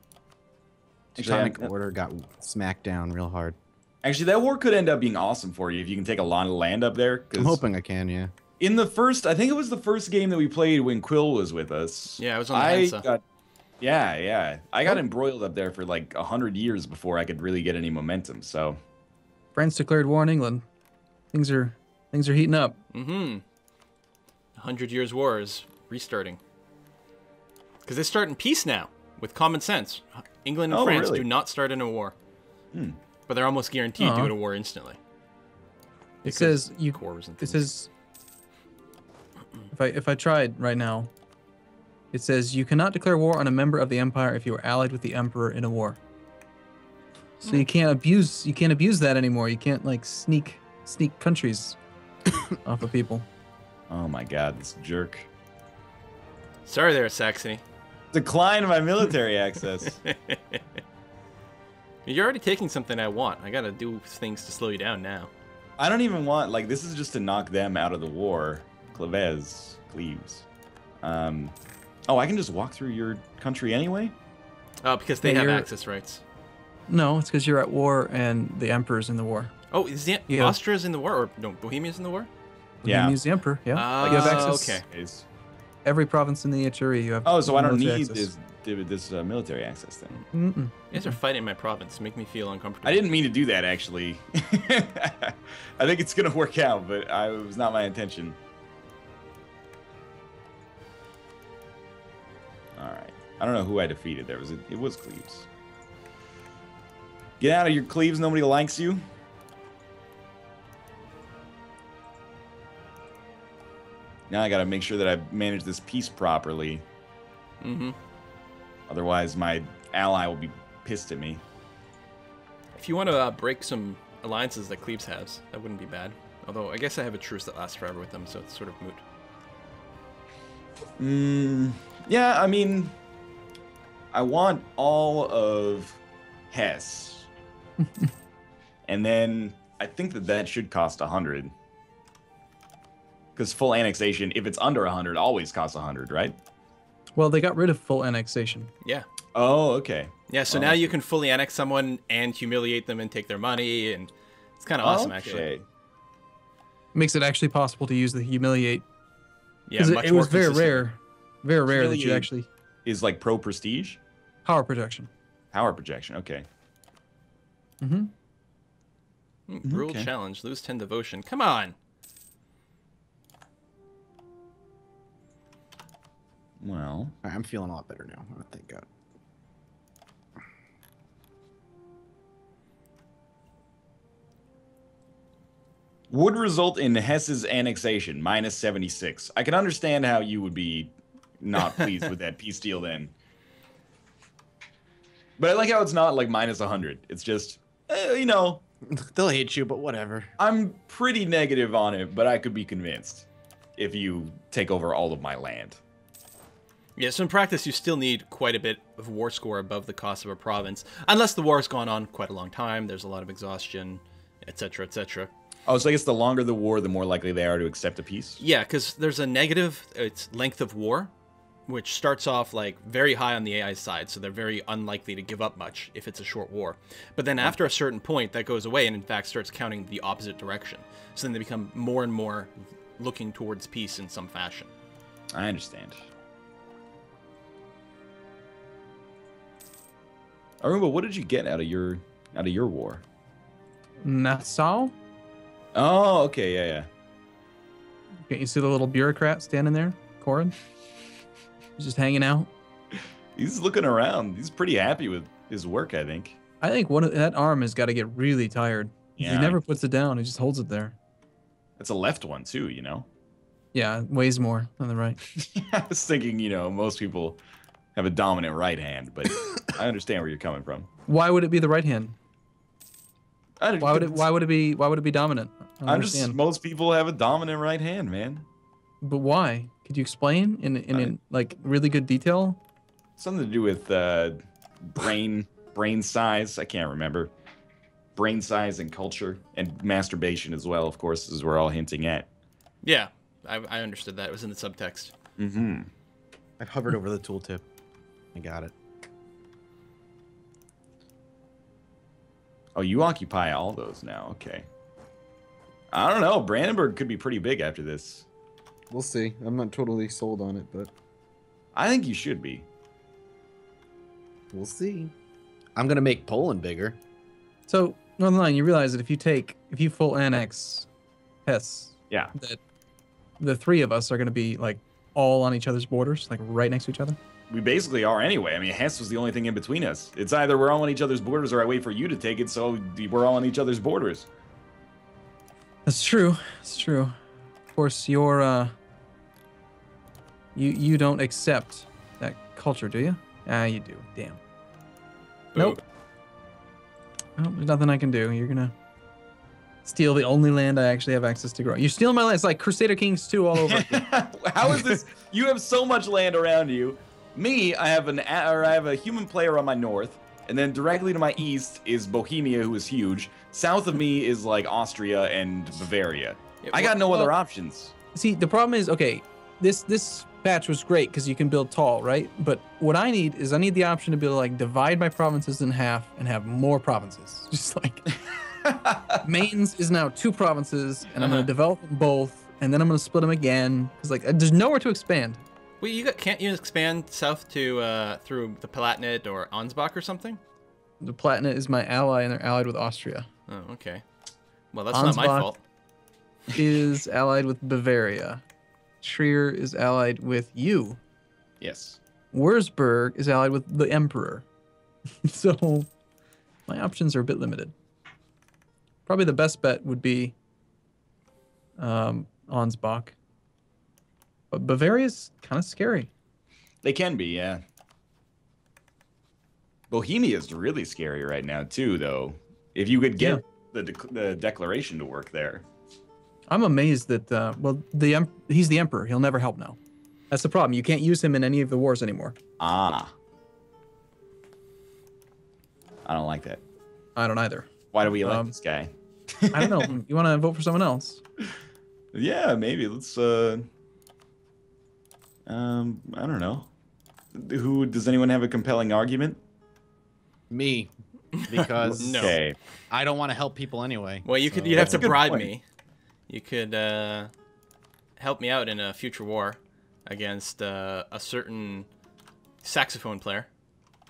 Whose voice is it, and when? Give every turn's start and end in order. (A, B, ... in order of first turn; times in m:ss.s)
0:01.1-0:03.6 A
0:01.2-0:01.7 B
0:04.0-0:07.6 B
0:07.3-0:08.3 A
0:08.6-0:13.2 B
0:12.1-0:13.0 C
0:13.8-0:18.8 B
0:19.5-0:20.6 D
0:21.3-0:22.8 D
0:22.9-0:23.4 C
0:24.6-0:26.4 C
0:27.8-0:32.1 C
0:30.7-0:31.2 B
0:32.7-0:33.0 B
0:33.3-0:35.0 C
0:34.0-0:34.3 D
0:36.2-0:37.9 D
0:36.2-0:37.7 C
0:39.7-0:41.1 D
0:42.1-0:46.0 D
0:47.4-0:51.8 D
0:52.6-0:53.2 D
0:53.9-0:55.3 B
0:56.6-0:57.6 C
0:58.1-1:00.0 B
0:59.8-1:00.6 C
1:02.0-1:05.3 C
1:05.8-1:10.4 B
1:11.0-1:11.5 B
1:12.1-1:14.1 B
1:14.8-1:16.2 C
1:15.2-1:15.7 D
1:16.9-1:19.5 D
1:19.7-1:22.3 C
1:20.3-1:20.6 D
1:22.8-1:24.8 D
1:22.8-1:23.2 B
1:23.7-1:24.8 C
1:24.0-1:25.2 B
1:25.8-1:28.3 D
1:27.2-1:30.2 B
1:30.3-1:31.2 D
1:30.9-1:33.1 C
1:32.8-1:38.4 B
1:42.8-1:45.5 B
1:47.4-1:49.0 B
1:54.3-1:56.8 B
1:57.6-1:58.0 C
1:58.9-2:01.4 B
2:02.7-2:09.0 C
2:11.0-2:12.9 B
2:14.1-2:17.3 B
2:18.8-2:21.5 B
2:23.4-2:26.4 B
2:27.1-2:28.7 D
2:29.3-2:31.0 B
2:30.3-2:35.5 C
2:34.8-2:35.6 B
2:36.9-2:38.8 D
2:39.7-2:40.9 C
2:39.8-2:42.5 D
2:41.7-2:42.3 B
2:42.8-2:44.0 B
2:44.4-2:45.1 D
2:45.5-2:46.4 B
2:47.8-2:48.1 D
2:49.5-2:51.8 C
2:49.6-2:50.1 B
2:56.6-2:57.1 B
2:57.2-2:58.8 A
3:06.1-3:13.1 B
3:15.4-3:18.6 B
3:18.9-3:20.3 A
3:20.4-3:25.8 B
3:27.0-3:35.3 C
3:35.7-3:38.4 B
3:38.4-3:41.1 C
3:41.7-3:54.7 C
3:47.4-3:47.7 B
3:55.3-3:56.0 B
4:00.6-4:03.0 B
4:04.0-4:04.9 D
4:05.7-4:06.9 B
4:08.2-4:10.6 D
4:11.8-4:12.5 D
4:13.4-4:16.4 B
4:16.6-4:20.9 D
4:19.2-4:19.6 B
4:21.8-4:23.1 B
4:23.7-4:25.2 D
4:25.4-4:27.4 B
4:28.0-4:30.9 B
4:31.1-4:32.2 D
4:33.6-4:34.3 B
4:33.8-4:36.4 D
4:35.8-4:38.4 B
4:39.0-4:42.6 D
4:43.2-4:47.3 B
4:48.2-4:52.3 B
4:52.8-4:55.1 C
4:55.4-4:55.9 B
4:56.6-4:57.6 A
4:58.3-4:58.7 A
5:02.8-5:04.7 B
5:05.9-5:08.3 B
5:08.9-5:10.9 A
5:11.7-5:12.7 B
5:14.5-5:15.1 A
5:15.8-5:17.0 A
5:17.7-5:20.9 D
5:21.4-5:22.6 D
5:23.4-5:27.2 D
5:27.5-5:34.3 B
5:35.8-5:37.1 D
5:37.7-5:38.7 D
5:40.5-5:44.4 D
5:45.5-5:45.8 C
5:45.6-5:45.8 D
5:47.4-5:48.7 D
5:49.8-5:54.1 D
5:53.6-6:07.9 B
6:06.6-6:07.0 C
6:07.0-6:07.3 D
6:08.1-6:18.1 D
6:18.6-6:19.1 B
6:19.2-6:25.4 D
6:21.2-6:21.5 C
6:25.8-6:30.4 C
6:31.0-6:33.3 D
6:33.5-6:34.0 C
6:34.7-6:35.6 C
6:34.9-6:35.5 D
6:36.5-6:38.4 D
6:39.0-6:41.0 D
6:41.6-6:42.0 B
6:42.3-6:44.4 D
6:45.2-6:45.9 D
6:46.7-6:47.7 D
6:49.0-6:50.3 D
6:51.8-6:53.2 D
6:54.5-6:56.1 D
6:56.8-6:57.6 B
6:59.9-7:05.6 B
7:03.2-7:03.4 D
7:06.5-7:09.8 D
7:10.3-7:12.4 D
7:12.6-7:13.1 B
7:16.0-7:16.6 B
7:17.2-7:18.6 D
7:17.9-7:19.9 B
7:19.5-7:21.2 D
7:22.1-7:23.6 B
7:25.5-7:26.7 B
7:27.3-7:29.4 B
7:30.5-7:30.9 A
7:31.5-7:32.4 A
7:31.6-7:32.4 C
7:32.0-7:32.6 B
7:32.9-7:35.2 A
7:34.2-7:35.6 C
7:34.7-7:35.5 B
7:36.3-7:37.3 C
7:38.2-7:41.9 C
7:42.6-7:43.5 C